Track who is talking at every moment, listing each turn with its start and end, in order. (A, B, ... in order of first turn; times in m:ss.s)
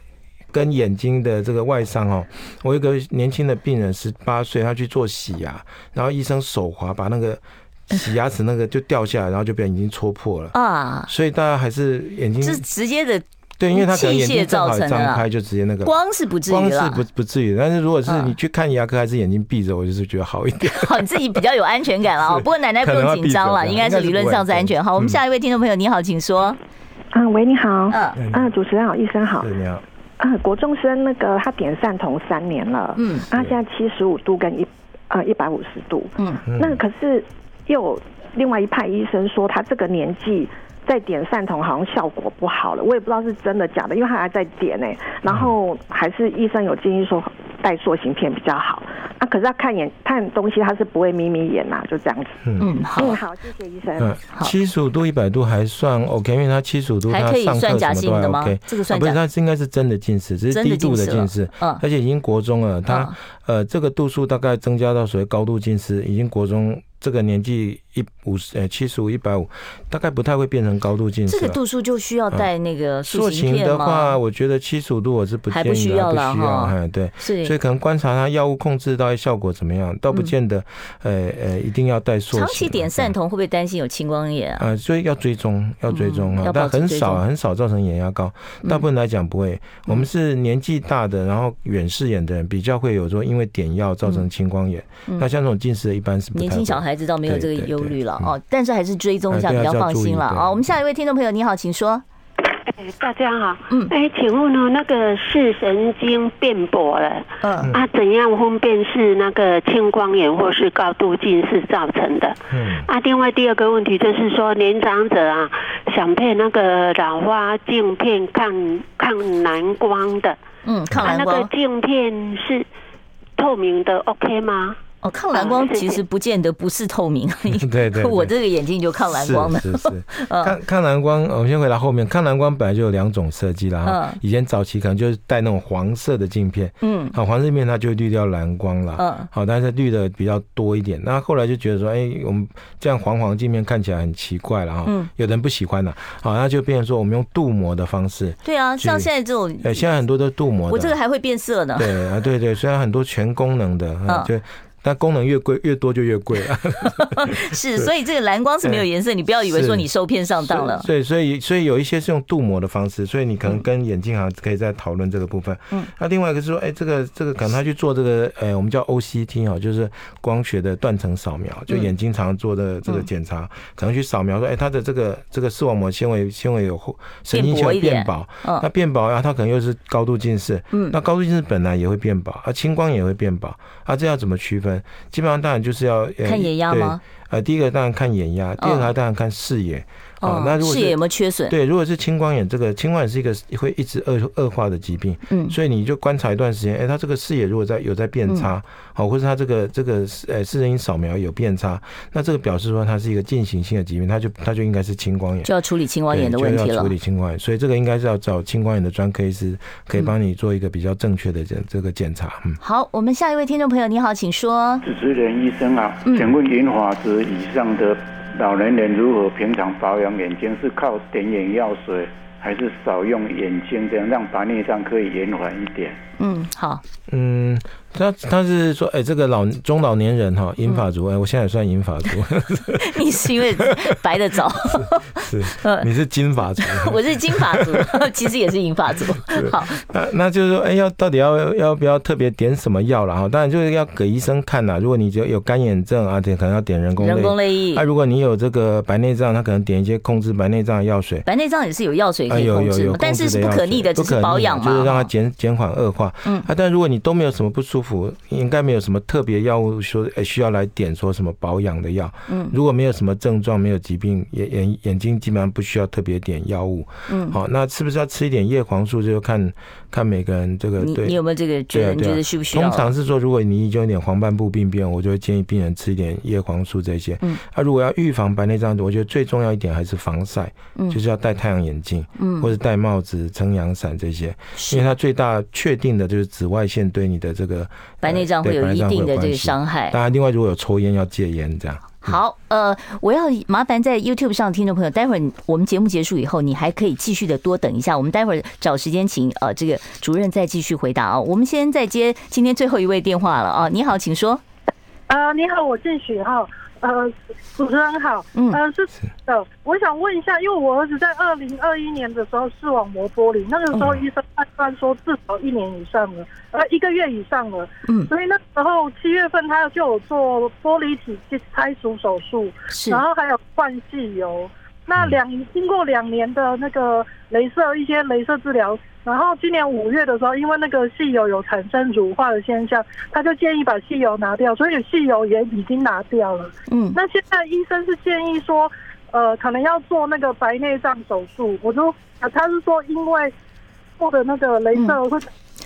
0:00.5-0:10.6 A
0:10.5-0:11.1 B
0:11.1-0:12.6 A
0:12.4-0:15.2 B
0:13.6-0:15.9 A
0:15.8-0:17.0 B
0:16.5-0:21.1 A
0:18.1-0:18.3 B
0:20.6-0:26.6 B
0:22.3-0:25.2 A
0:27.1-0:29.5 C
0:27.9-0:28.2 B
0:28.2-0:28.5 A
0:29.4-0:29.8 A
0:30.2-0:54.2 C
0:33.0-0:33.3 B
0:36.5-0:36.8 A
0:45.3-0:45.5 A
0:52.6-0:53.2 B
0:54.0-1:11.6 A
0:57.1-0:59.2 B
1:00.5-1:01.8 B
1:02.9-1:03.2 B
1:11.3-1:14.2 B
1:13.1-1:23.2 A
1:15.5-1:17.6 B
1:22.3-1:24.6 B
1:24.6-1:38.3 A
1:25.9-1:27.2 B
1:36.3-1:42.0 B
1:39.3-1:40.6 A
1:42.7-1:52.4 D
1:47.4-1:47.7 B
1:52.5-1:52.9 A
1:52.9-2:00.4 D
2:00.6-2:01.5 B
2:01.0-2:02.7 D
2:03.4-2:04.8 D
2:05.0-2:10.6 B
2:05.3-2:06.0 D
2:07.6-2:08.3 A
2:09.1-2:29.1 A
2:13.8-2:14.2 B
2:16.8-2:17.2 B
2:19.0-2:19.3 B
2:28.4-2:29.8 B
2:29.6-2:31.0 A
2:30.7-2:32.0 B
2:31.8-2:37.9 A
2:36.8-2:40.9 B
2:39.4-2:39.9 A
2:40.4-3:25.5 A
2:57.3-2:58.7 B
3:06.2-3:07.0 B
3:08.6-3:08.9 B
3:10.2-3:11.6 B
3:15.3-3:15.6 B
3:25.4-3:26.9 B
3:26.1-3:32.6 A
3:32.6-3:34.8 B
3:34.8-3:46.0 E
3:36.0-3:36.3 B
3:46.2-3:46.8 B
3:47.1-3:54.0 A
3:52.8-3:55.9 B
3:55.2-3:57.9 A
3:56.6-3:59.8 B
3:59.3-4:11.3 A
4:07.0-4:07.8 B
4:11.3-4:15.1 B
4:12.3-4:31.2 A
4:22.3-4:22.6 B
4:27.1-4:27.4 B
4:30.8-4:32.9 B
4:31.7-4:52.2 A
4:42.2-4:42.5 B
4:44.6-4:44.9 B
4:48.0-4:50.0 B
4:52.0-5:04.4 B
5:05.1-5:43.3 F
5:08.4-5:08.6 B
5:17.9-5:18.1 B
5:22.7-5:23.0 B
5:36.7-5:37.0 B
5:44.0-5:45.3 F